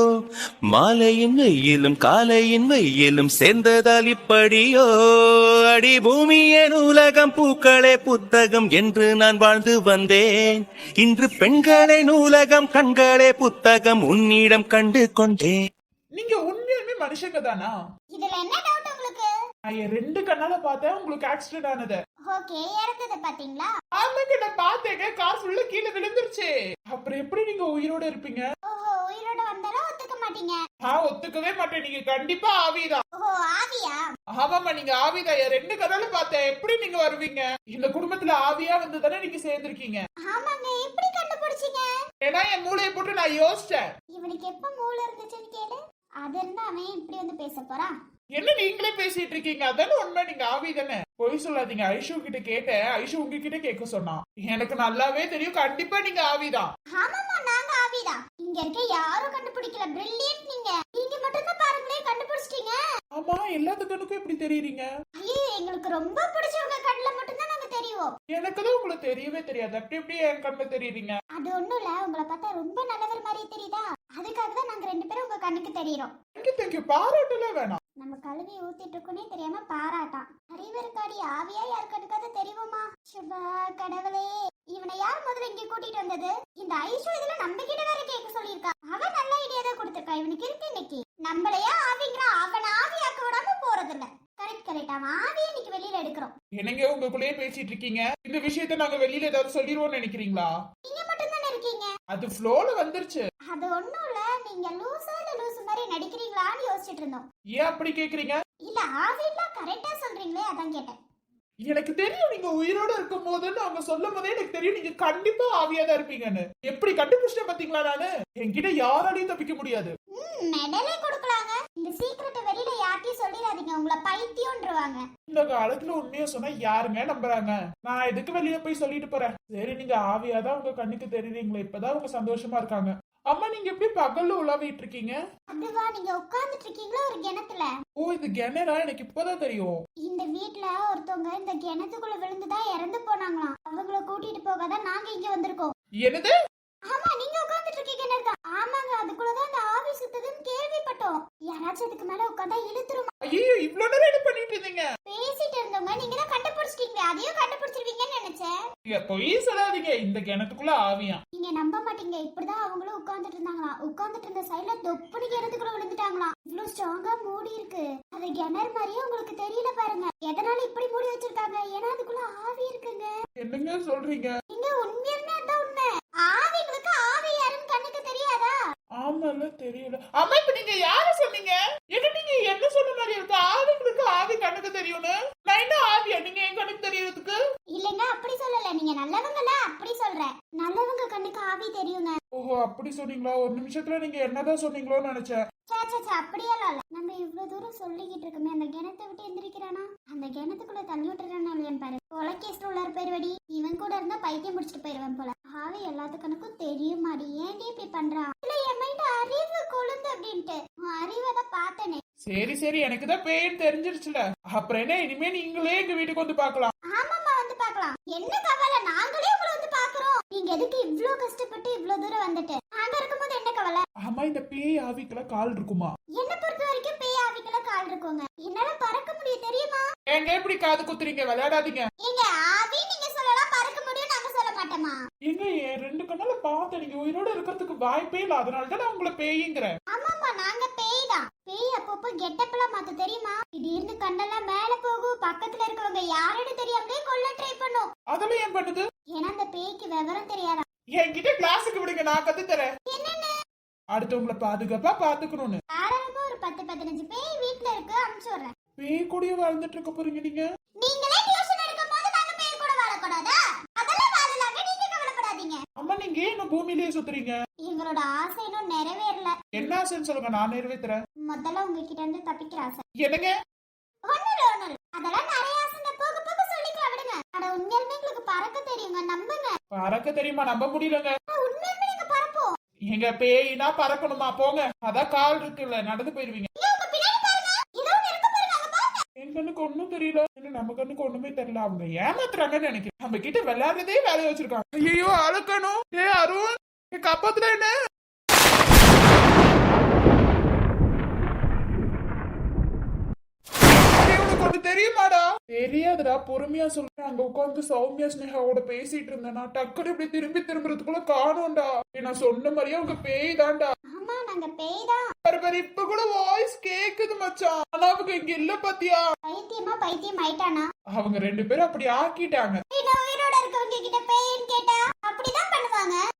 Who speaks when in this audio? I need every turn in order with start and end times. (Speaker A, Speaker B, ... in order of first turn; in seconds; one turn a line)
Speaker A: 0.7-10.2
Speaker A: 11.0-15.6
Speaker B: 16.1-17.7
Speaker C: 18.1-19.3
Speaker B: 19.7-22.0
Speaker C: 22.3-23.7
Speaker B: 23.9-28.5
Speaker C: 28.6-30.6
Speaker B: 30.8-33.0
Speaker C: 33.1-34.0
Speaker B: 34.3-40.0
Speaker C: 40.2-41.9
Speaker B: 42.2-43.8
Speaker C: 44.1-47.9
Speaker B: 48.3-56.7
Speaker C: 56.9-62.8
Speaker B: 63.1-64.8
Speaker C: 65.2-68.1
Speaker B: 68.3-71.2
Speaker C: 71.3-76.2
Speaker B: 76.3-77.8
Speaker C: 78.0-96.3
Speaker B: 96.6-100.5
Speaker C: 100.8-101.9
Speaker B: 102.1-103.2
Speaker C: 103.5-107.2
Speaker B: 107.5-108.4
Speaker C: 108.7-110.9
Speaker B: 111.7-119.9
Speaker C: 120.1-125.0
Speaker B: 125.3-135.2
Speaker C: 135.5-137.7
Speaker B: 138.0-139.8
Speaker C: 140.0-145.7
Speaker B: 146.0-146.3
Speaker C: 146.9-153.1
Speaker B: 153.2-154.9
Speaker C: 155.0-158.5
Speaker B: 158.9-161.2
Speaker C: 161.3-173.1
Speaker B: 173.4-174.3
Speaker C: 174.5-178.5
Speaker B: 179.0-187.4
Speaker C: 187.7-192.2
Speaker B: 192.3-195.4
Speaker C: 195.7-212.0
Speaker B: 212.2-216.7
Speaker C: 216.9-223.8
Speaker B: 224.0-225.9
Speaker C: 226.2-229.8
Speaker B: 230.1-231.9
Speaker C: 232.0-234.9
Speaker B: 235.3-239.7
Speaker C: 239.9-247.9
Speaker B: 248.1-248.9
Speaker C: 249.1-250.6
Speaker B: 250.9-252.7
Speaker C: 252.9-253.3
Speaker B: 253.9-255.6
Speaker C: 255.8-258.5
Speaker B: 258.8-260.5
Speaker C: 260.8-265.6
Speaker B: 265.8-267.3
Speaker C: 267.6-269.3
Speaker B: 269.5-271.0
Speaker C: 271.2-272.8
Speaker B: 273.0-273.3
Speaker C: 274.1-279.6
Speaker B: 279.7-281.1
Speaker C: 281.3-282.6
Speaker B: 282.9-286.5
Speaker C: 286.6-289.0
Speaker B: 289.2-297.7
Speaker B: 304.0-313.7
Speaker C: 313.9-315.1
Speaker B: 315.2-319.1
Speaker C: 319.3-320.7
Speaker B: 320.9-322.6
Speaker C: 322.7-326.0